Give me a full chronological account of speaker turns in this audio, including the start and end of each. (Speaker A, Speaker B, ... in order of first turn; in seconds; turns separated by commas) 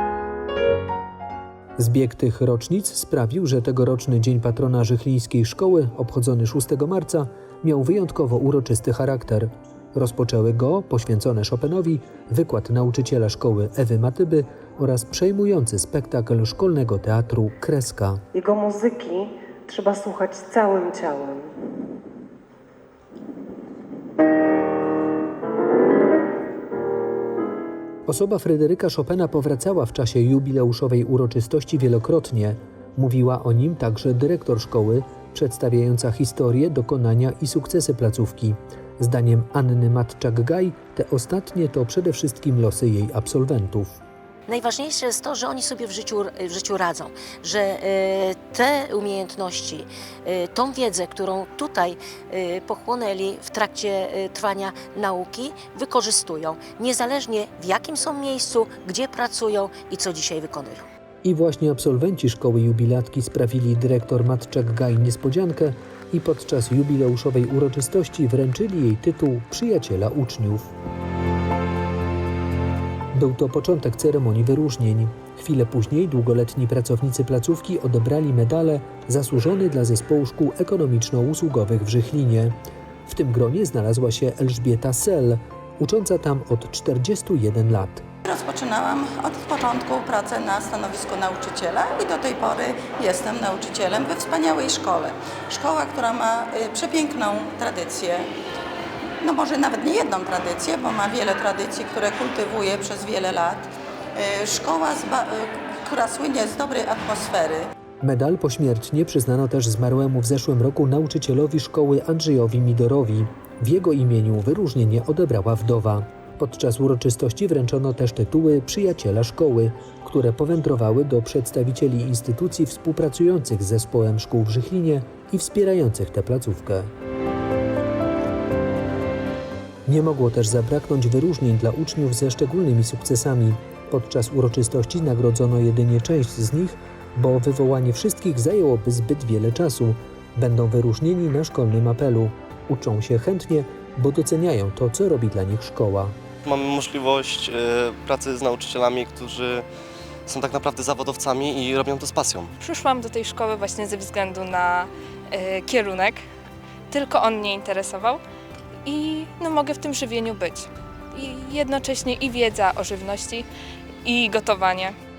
Speaker A: 1.8-18.2, Speaker B: 18.3-21.5, Speaker A: 28.1-44.0, Speaker C: 44.5-60.9, Speaker A: 61.2-70.7, Speaker A: 73.1-82.5, Speaker A: 83.1-88.0, Speaker D: 88.2-98.3, Speaker D: 99.2-107.7, Speaker A: 108.0-126.9, Speaker A: 129.9-146.1, Speaker E: 146.4-149.6, Speaker E: 150.3-152.5, Speaker F: 152.6-156.2, Speaker F: 156.9-158.2, Speaker F: 158.8-163.4, Speaker F: 164.0-164.9